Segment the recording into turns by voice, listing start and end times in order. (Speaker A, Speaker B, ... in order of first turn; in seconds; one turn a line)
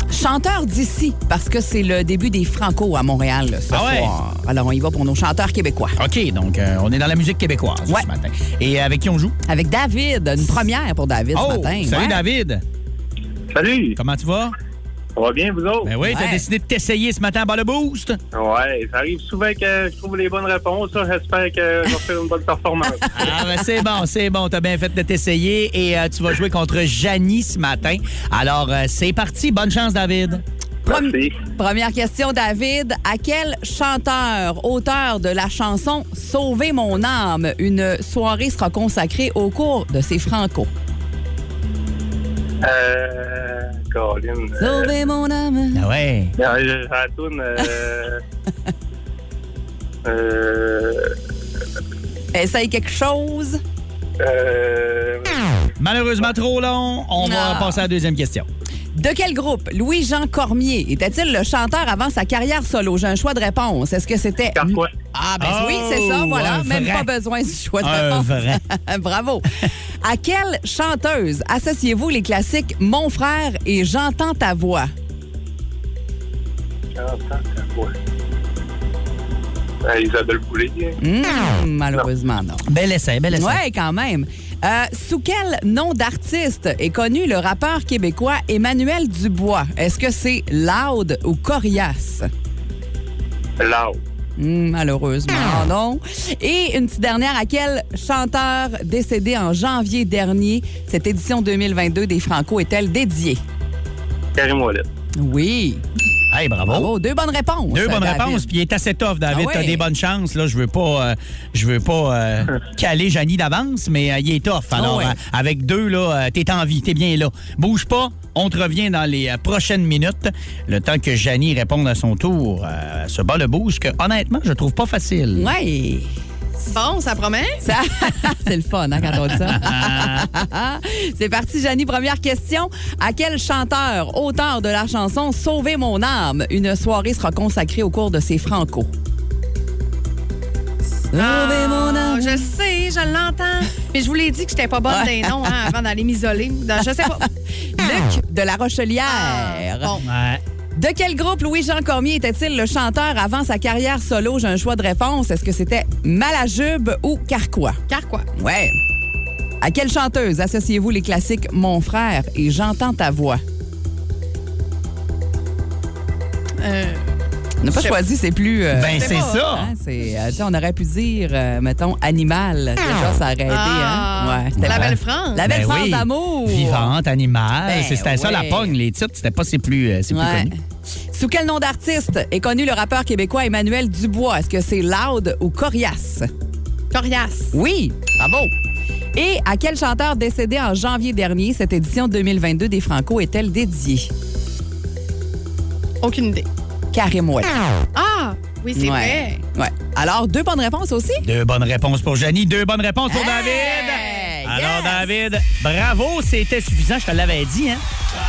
Speaker A: 0.1-6.0
Speaker B: 3.7-4.1
Speaker B: 6.0-9.3
Speaker A: 9.5-12.2
Speaker B: 11.3-12.6
Speaker C: 13.5-14.0
Speaker B: 14.0-14.5
Speaker C: 15.2-15.9
Speaker B: 15.8-18.2
Speaker A: 16.0-16.4
Speaker C: 18.3-23.3
Speaker B: 23.1-30.4
Speaker A: 30.9-40.7
Speaker C: 30.9-31.4
Speaker C: 42.6-44.9
Speaker A: 44.6-45.8
Speaker B: 45.7-46.3
Speaker C: 46.4-48.2
Speaker C: 50.0-51.1
Speaker A: 52.3-53.6
Speaker C: 54.2-55.6
Speaker B: 55.8-58.5
Speaker A: 57.2-57.9
Speaker A: 58.9-74.9
Speaker C: 64.5-64.9
Speaker B: 65.4-67.1
Speaker B: 67.8-68.6
Speaker C: 77.0-77.9
Speaker C: 79.8-81.0
Speaker A: 81.0-82.7
Speaker B: 82.7-83.6
Speaker A: 83.3-92.3
Speaker C: 93.6-94.0
Speaker A: 94.4-103.4
Speaker C: 104.3-104.8
Speaker A: 105.2-105.8
Speaker B: 106.3-106.9
Speaker A: 106.7-108.5
Speaker B: 107.7-125.5
Speaker A: 109.3-109.8
Speaker A: 114.7-115.2
Speaker A: 125.3-126.1
Speaker D: 126.7-127.6
Speaker A: 127.6-138.9
Speaker B: 129.1-130.3
Speaker A: 141.1-142.4
Speaker D: 141.1-147.2
Speaker A: 144.9-145.6
Speaker A: 147.2-149.9
Speaker D: 149.1-150.0
Speaker B: 150.0-150.4
Speaker A: 150.7-157.8
Speaker D: 157.9-158.2
Speaker A: 158.3-158.8
Speaker A: 159.6-163.4
Speaker D: 166.6-167.0
Speaker A: 167.6-176.9
Speaker B: 168.7-169.7
Speaker D: 169.0-169.4
Speaker D: 173.5-175.4
Speaker B: 174.6-180.5
Speaker A: 177.7-178.7
Speaker A: 180.1-180.6
Speaker A: 181.1-186.3
Speaker D: 186.9-187.5
Speaker A: 187.5-188.5
Speaker A: 189.2-194.1
Speaker D: 196.0-196.4
Speaker A: 196.9-197.8
Speaker D: 197.9-199.3
Speaker A: 198.8-201.2
Speaker B: 201.2-207.8
Speaker A: 203.1-205.1
Speaker D: 203.6-204.3